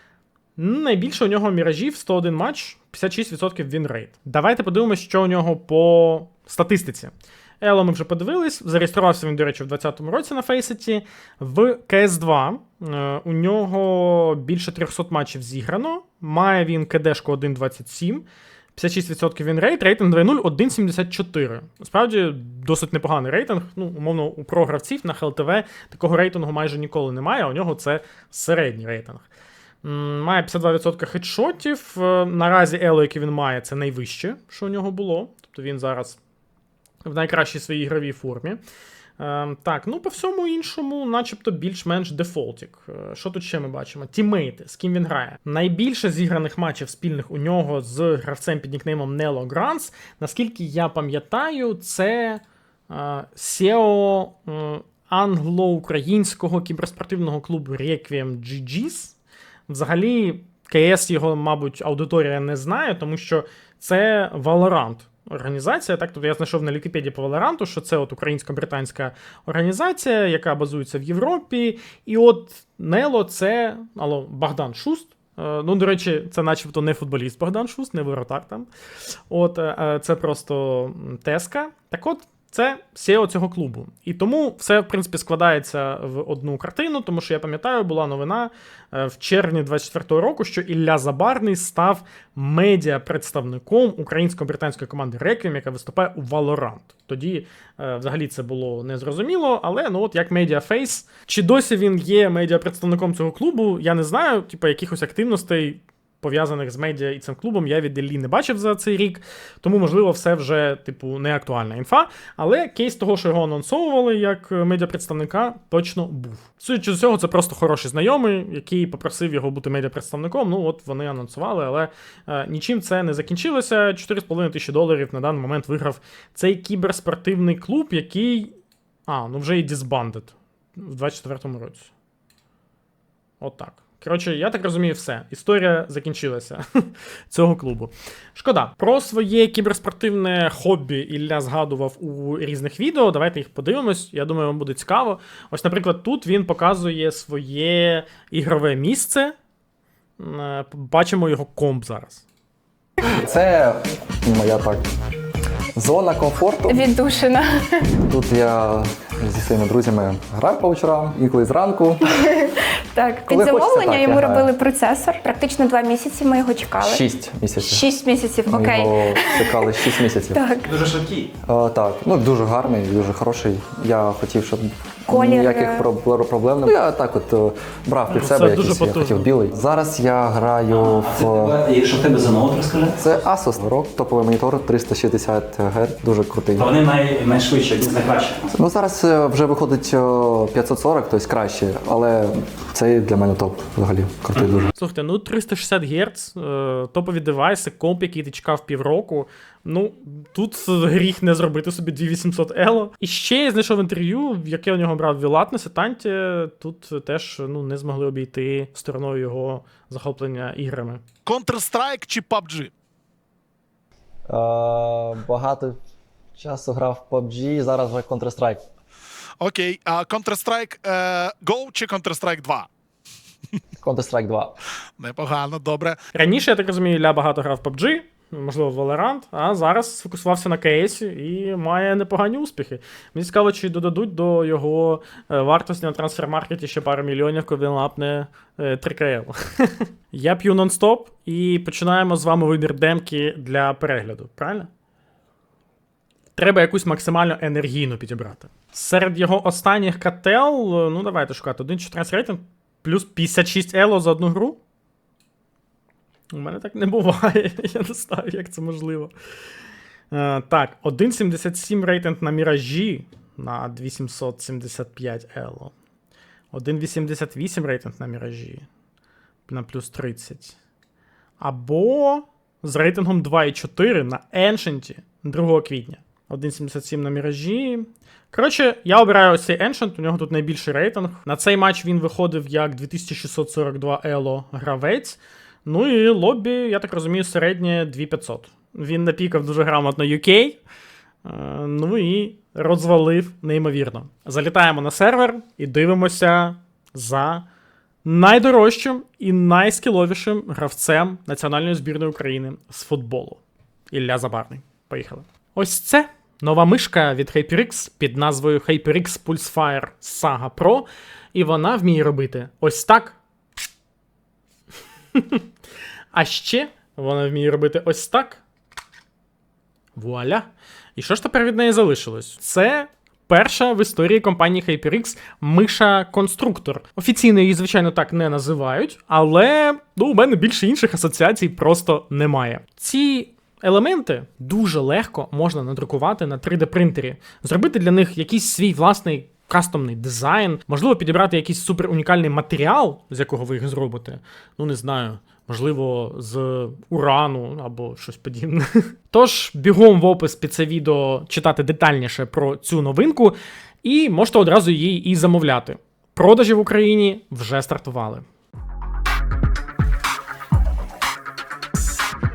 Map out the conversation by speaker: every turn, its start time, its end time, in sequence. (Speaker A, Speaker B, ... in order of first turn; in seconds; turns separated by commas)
Speaker A: 0.6-29.3, Speaker A: 29.8-36.2, Speaker A: 37.0-38.6, Speaker A: 39.2-59.2, Speaker A: 59.7-78.7, Speaker A: 79.3-128.5, Speaker A: 129.1-131.9, Speaker A: 133.4-149.3, Speaker A: 150.2-152.2, Speaker B: 153.0-154.8, Speaker B: 155.8-156.8, Speaker C: 156.7-157.7, Speaker B: 158.0-162.1, Speaker C: 162.1-167.0, Speaker B: 163.3-164.5, Speaker B: 166.8-167.8, Speaker C: 167.6-170.7, Speaker B: 168.5-170.4, Speaker D: 170.6-171.3, Speaker B: 171.4-181.6, Speaker C: 175.1-175.8, Speaker A: 178.1-179.3, Speaker D: 180.7-183.2, Speaker B: 183.0-186.7, Speaker D: 186.6-188.5, Speaker B: 188.5-194.7, Speaker A: 194.7-211.0, Speaker E: 211.2-212.7, Speaker B: 214.3-215.8, Speaker B: 216.4-218.6, Speaker E: 219.4-222.7, Speaker B: 223.8-224.5, Speaker E: 225.0-226.0, Speaker A: 226.1-244.7, Speaker A: 246.3-254.6, Speaker A: 256.3-259.1, Speaker A: 260.1-265.7, Speaker A: 266.5-268.6, Speaker A: 269.5-270.6, Speaker A: 271.4-290.6, Speaker A: 291.2-297.4, Speaker A: 298.0-313.2, Speaker A: 315.1-315.4, Speaker A: 316.1-318.4, Speaker A: 319.9-358.2